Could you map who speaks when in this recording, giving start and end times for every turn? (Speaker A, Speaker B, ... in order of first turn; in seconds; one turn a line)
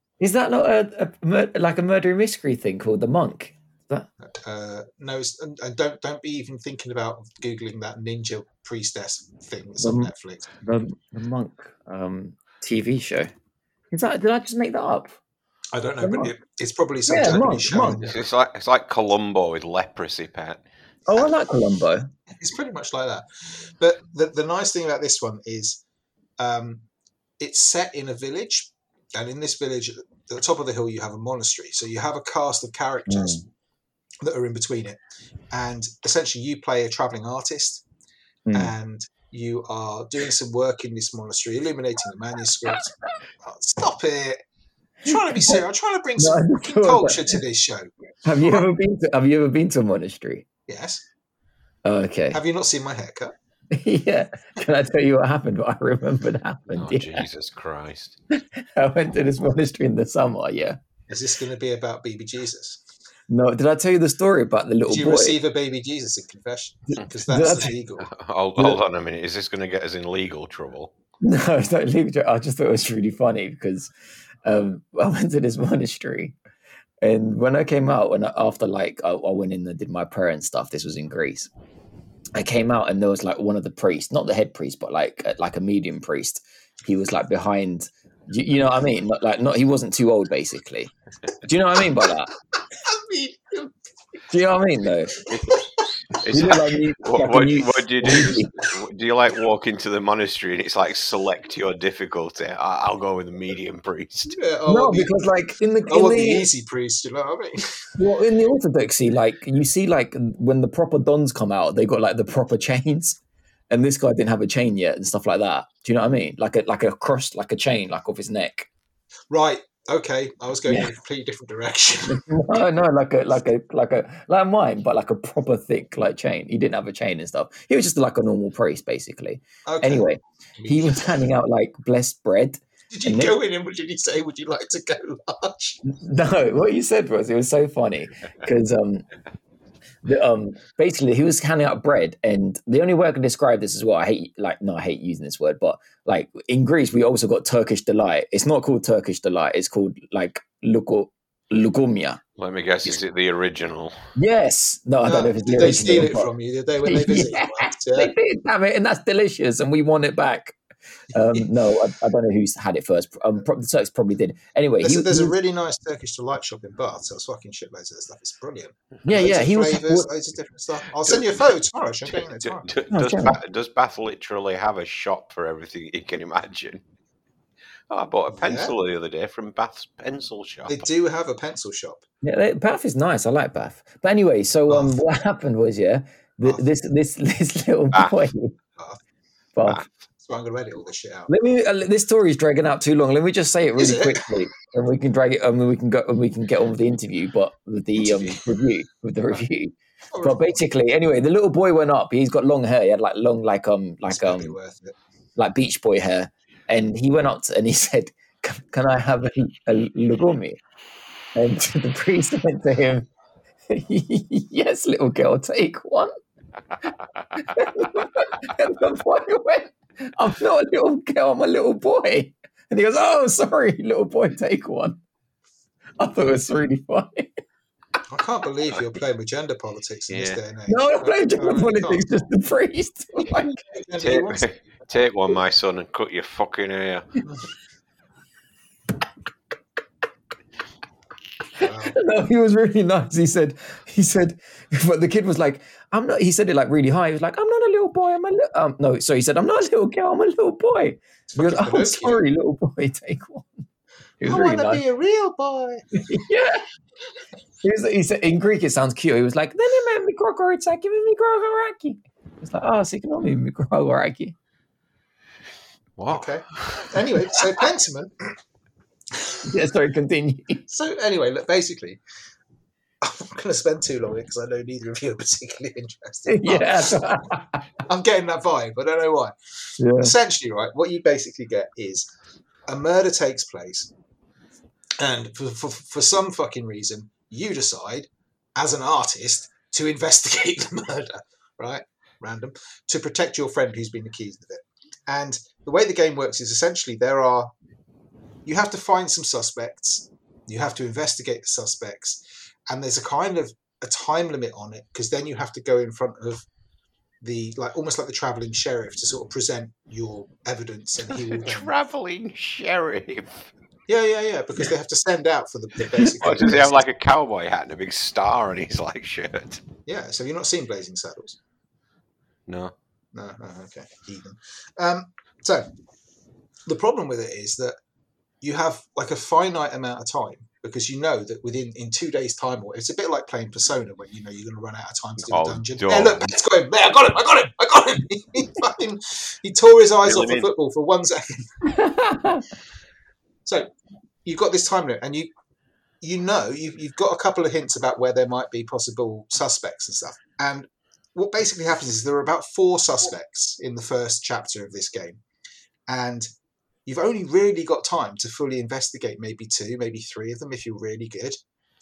Speaker A: 0.2-4.1
Speaker B: 4.2-10.5
Speaker A: 9.8-13.3
Speaker A: 13.9-15.2
Speaker B: 15.7-18.2
Speaker A: 16.0-16.3
Speaker A: 17.1-18.0
Speaker C: 18.0-20.6
Speaker A: 21.1-22.1
Speaker B: 21.1-21.3
Speaker B: 22.3-25.8
Speaker B: 26.4-26.8
Speaker B: 27.4-33.4
Speaker A: 33.1-33.4
Speaker B: 34.2-35.0
Speaker B: 35.5-37.8
Speaker A: 38.5-38.7
Speaker B: 38.5-44.4
Speaker B: 45.0-48.7
Speaker A: 45.1-45.6
Speaker A: 46.2-47.4
Speaker A: 48.2-50.5
Speaker B: 50.7-51.0
Speaker A: 51.8-52.4
Speaker B: 52.3-53.3
Speaker A: 53.7-57.2
Speaker C: 56.7-58.2
Speaker A: 58.3-60.8
Speaker B: 61.1-62.8
Speaker A: 63.3-65.4
Speaker B: 64.9-68.1
Speaker A: 67.2-67.7
Speaker C: 68.0-70.9
Speaker A: 71.2-73.9
Speaker A: 74.4-76.3
Speaker A: 77.0-81.5
Speaker A: 82.3-92.3
Speaker B: 92.7-93.7
Speaker A: 94.3-95.2
Speaker C: 96.1-104.3
Speaker A: 96.3-98.6
Speaker B: 104.3-105.1
Speaker A: 104.7-106.5
Speaker B: 105.9-107.8
Speaker A: 108.0-113.2
Speaker A: 113.7-118.7
Speaker B: 119.3-122.2
Speaker A: 122.0-133.3
Speaker B: 129.7-131.3
Speaker B: 132.9-135.8
Speaker A: 135.8-139.1
Speaker A: 140.0-152.2
Speaker C: 152.4-154.0
Speaker A: 154.2-156.3
Speaker B: 155.0-158.1
Speaker A: 156.8-160.6
Speaker A: 161.1-165.3
Speaker B: 161.2-161.4
Speaker B: 164.8-172.7
Speaker A: 169.0-170.1
Speaker C: 171.0-171.3
Speaker C: 172.1-176.8
Speaker A: 172.9-173.4
Speaker C: 177.9-180.9
Speaker B: 178.3-178.7
Speaker B: 180.7-182.0
Speaker A: 182.2-188.5
Speaker B: 184.7-184.9
Speaker B: 188.8-189.0
Speaker A: 189.6-189.8
Speaker B: 190.2-191.3
Speaker A: 191.3-204.6
Speaker B: 193.8-194.4
Speaker B: 198.0-198.4
Speaker B: 200.1-200.6
Speaker B: 204.1-205.0
Speaker A: 205.4-210.6
Speaker A: 211.3-213.1
Speaker A: 213.7-216.1
Speaker A: 217.4-225.0
Speaker A: 226.0-227.3
Speaker B: 228.1-232.0
Speaker C: 230.1-230.4
Speaker A: 230.7-233.6
Speaker B: 233.2-234.5
Speaker C: 234.0-237.1
Speaker B: 241.6-241.9
Speaker A: 241.6-253.6
Speaker B: 251.3-252.2
Speaker A: 254.2-254.8
Speaker B: 254.2-255.8
Speaker A: 255.9-256.6
Speaker A: 257.6-264.4
Speaker C: 266.0-266.9
Speaker B: 266.1-268.3
Speaker B: 269.1-269.4
Speaker A: 269.4-270.6
Speaker B: 270.7-272.0
Speaker B: 273.0-277.2
Speaker A: 276.3-277.6
Speaker B: 277.8-279.3
Speaker A: 279.8-280.1
Speaker B: 279.9-282.1
Speaker B: 282.7-283.9
Speaker B: 285.0-297.5
Speaker B: 298.4-306.4
Speaker B: 307.2-311.7
Speaker C: 311.1-313.5
Speaker B: 313.9-316.9
Speaker C: 316.2-319.6
Speaker B: 319.9-321.4
Speaker C: 322.5-322.7
Speaker B: 323.1-325.7
Speaker B: 326.6-327.8
Speaker B: 328.4-341.5
Speaker C: 335.2-336.3
Speaker C: 340.0-340.5
Speaker A: 341.7-342.4
Speaker B: 343.4-343.7
Speaker B: 344.2-345.3
Speaker B: 346.0-355.2
Speaker B: 355.9-356.3
Speaker B: 356.9-361.4